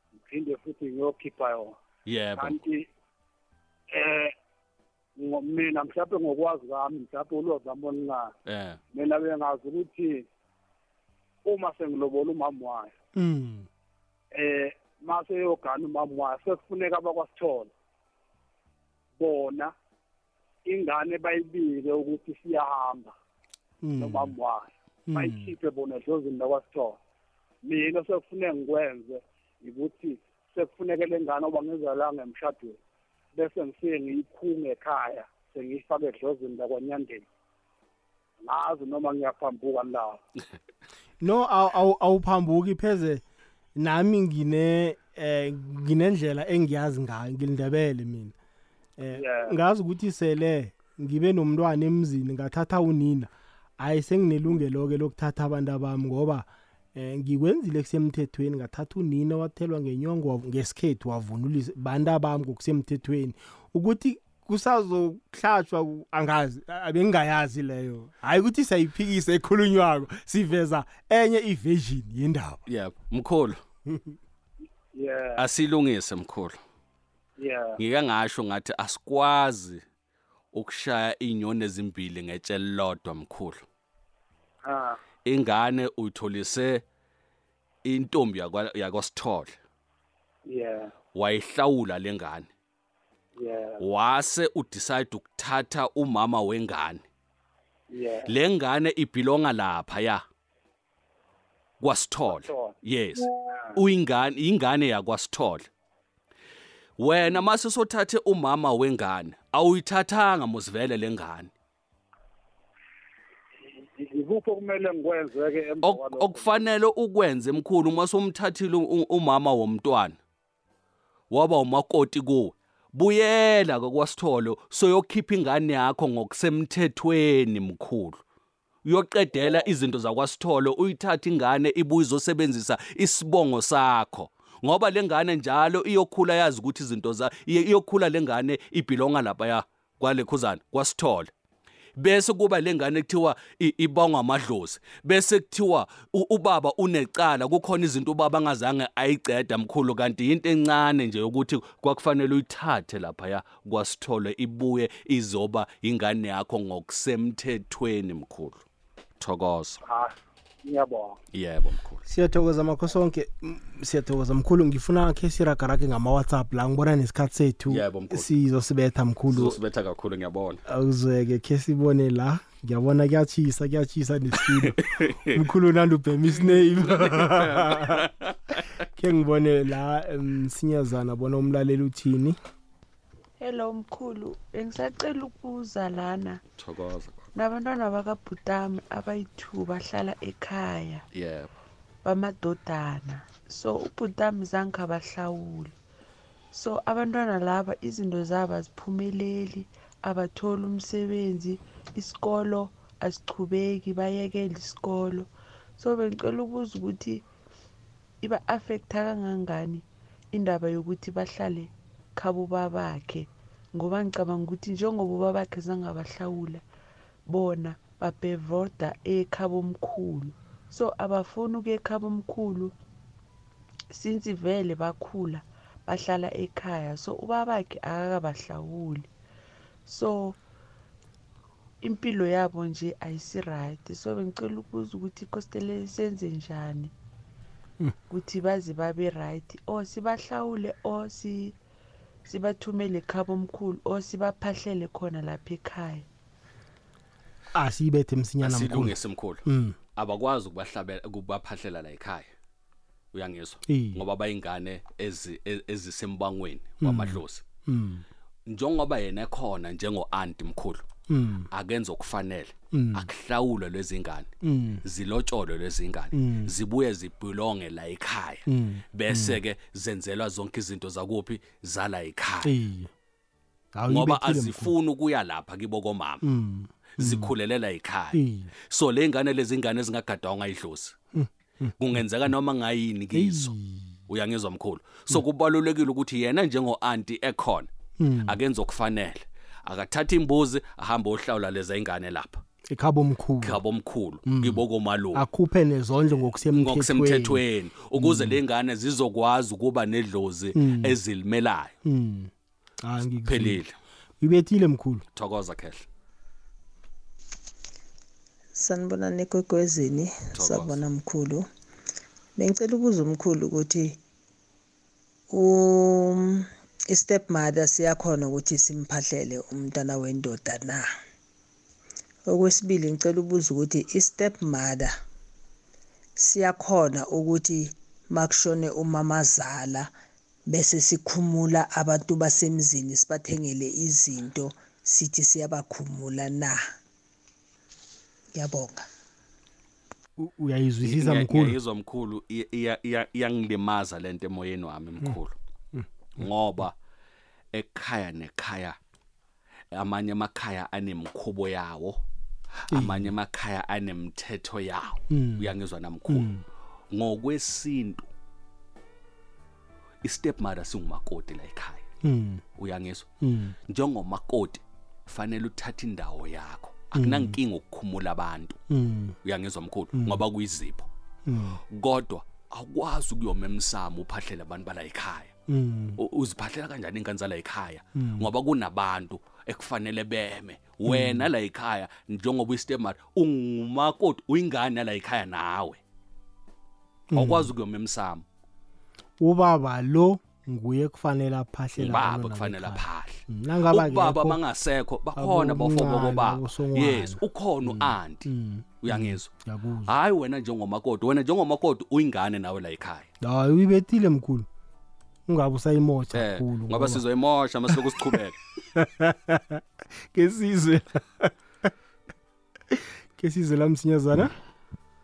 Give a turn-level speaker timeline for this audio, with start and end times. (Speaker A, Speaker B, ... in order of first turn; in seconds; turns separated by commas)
Speaker A: 0.2-1.8, Speaker B: 2.0-2.6, Speaker A: 2.4-2.8, Speaker A: 3.9-4.3, Speaker A: 5.2-8.3, Speaker B: 8.4-8.8, Speaker A: 8.9-10.2, Speaker A: 11.4-12.9, Speaker C: 13.2-13.7, Speaker A: 14.3-17.7, Speaker A: 19.2-19.7, Speaker A: 20.7-23.1, Speaker C: 23.8-24.4, Speaker A: 24.0-27.0, Speaker C: 25.1-25.5, Speaker A: 27.6-32.8, Speaker A: 33.3-37.3, Speaker A: 38.4-40.2, Speaker C: 41.2-43.2, Speaker C: 43.8-48.3, Speaker C: 49.0-72.6, Speaker A: 49.1-49.5, Speaker B: 72.7-73.6, Speaker A: 74.9-75.5, Speaker B: 75.4-76.6, Speaker A: 77.4-77.8, Speaker B: 77.8-79.8, Speaker B: 80.5-83.6, Speaker A: 84.6-85.0, Speaker B: 85.2-86.8, Speaker B: 87.8-89.6, Speaker A: 90.5-90.9, Speaker B: 91.1-92.5, Speaker A: 93.4-93.8, Speaker B: 93.8-97.0, Speaker A: 97.9-98.3, Speaker B: 98.3-100.2, Speaker B: 101.8-105.7, Speaker A: 102.3-102.8, Speaker A: 103.5-103.8, Speaker B: 107.0-111.5, Speaker A: 113.9-116.5, Speaker B: 115.8-120.2, Speaker B: 121.3-128.2, Speaker B: 128.8-141.3, Speaker B: 142.0-158.6, Speaker B: 159.2-159.8, Speaker A: 159.8-161.2, Speaker B: 161.3-162.0, Speaker C: 162.1-169.6, Speaker B: 167.7-168.3, Speaker B: 169.3-170.6, Speaker C: 170.7-178.0, Speaker B: 174.4-175.4, Speaker B: 176.3-178.4, Speaker C: 178.9-182.4, Speaker D: 183.4-186.4, Speaker B: 186.6-187.3, Speaker D: 187.4-191.0, Speaker B: 191.1-191.5, Speaker D: 192.0-195.7, Speaker D: 196.5-207.2, Speaker D: 208.2-216.6, Speaker D: 217.3-222.7, Speaker D: 223.9-229.1, Speaker D: 229.9-230.4, Speaker D: 231.8-236.9, Speaker D: 238.1-241.6, Speaker D: 242.3-246.1, Speaker C: 247.5-249.8, Speaker B: 248.4-249.4, Speaker B: 249.9-252.3, Speaker B: 253.1-257.4, Speaker C: 253.7-254.0, Speaker C: 256.8-258.1, Speaker B: 258.5-260.8, Speaker C: 261.1-261.5, Speaker B: 261.5-264.3, Speaker C: 262.7-263.1, Speaker C: 264.4-264.8, Speaker B: 264.8-272.5, Speaker C: 266.1-266.5, Speaker C: 268.5-269.4, Speaker C: 272.4-272.9, Speaker C: 273.7-274.7, Speaker B: 273.9-276.2, Speaker C: 276.2-277.3, Speaker B: 277.0-280.9, Speaker C: 278.1-278.5, Speaker C: 281.1-281.7, Speaker B: 281.8-283.6, Speaker C: 283.1-283.9, Speaker B: 284.1-287.7, Speaker C: 288.0-288.4, Speaker B: 288.2-292.4, Speaker C: 292.7-293.6, Speaker B: 293.4-295.2, Speaker C: 294.3-294.6, Speaker C: 295.1-297.4, Speaker B: 296.5-301.7, Speaker C: 297.9-298.4, Speaker C: 300.6-301.0, Speaker C: 301.8-302.3, Speaker C: 302.8-303.6, Speaker B: 303.3-303.7, Speaker C: 304.2-305.0, Speaker B: 305.1-305.9, Speaker E: 308.6-311.5, Speaker B: 310.3-310.7, Speaker E: 312.4-314.0, Speaker E: 315.3-320.9, Speaker E: 322.3-324.9, Speaker E: 326.2-329.9, Speaker E: 330.5-336.6, Speaker E: 338.3-338.9, Speaker C: 340.2-341.6, Speaker B: 340.8-345.3, Speaker B: 346.2-346.7, Speaker B: 347.5-348.8, Speaker B: 349.7-352.0, Speaker B: 352.7-356.3, Speaker C: 352.7-353.1, Speaker C: 355.1-355.5, Speaker C: 356.1-356.4, Speaker B: 356.9-358.1, Speaker B: 360.0-361.8, Speaker C: 362.0-362.4, Speaker B: 362.6-363.1, Speaker C: 363.2-363.6, Speaker B: 363.7-368.6, Speaker C: 366.9-367.4, Speaker C: 368.7-369.2, Speaker B: 369.2-370.9, Speaker C: 369.9-370.2, Speaker C: 371.3-371.6, Speaker B: 371.7-375.3, Speaker C: 375.5-376.0, Speaker B: 376.0-385.8, Speaker C: 377.9-378.3, Speaker C: 380.9-381.3, Speaker C: 387.1-387.5, Speaker B: 387.1-388.2, Speaker C: 389.2-394.4, Speaker B: 391.8-398.3, Speaker C: 395.2-399.9, Speaker B: 398.8-399.3, Speaker B: 399.9-403.1, Speaker C: 403.2-404.5, Speaker C: 405.3-407.0, Speaker B: 406.1-408.4, Speaker C: 408.7-409.6, Speaker C: 410.1-411.3, Speaker C: 413.2-414.3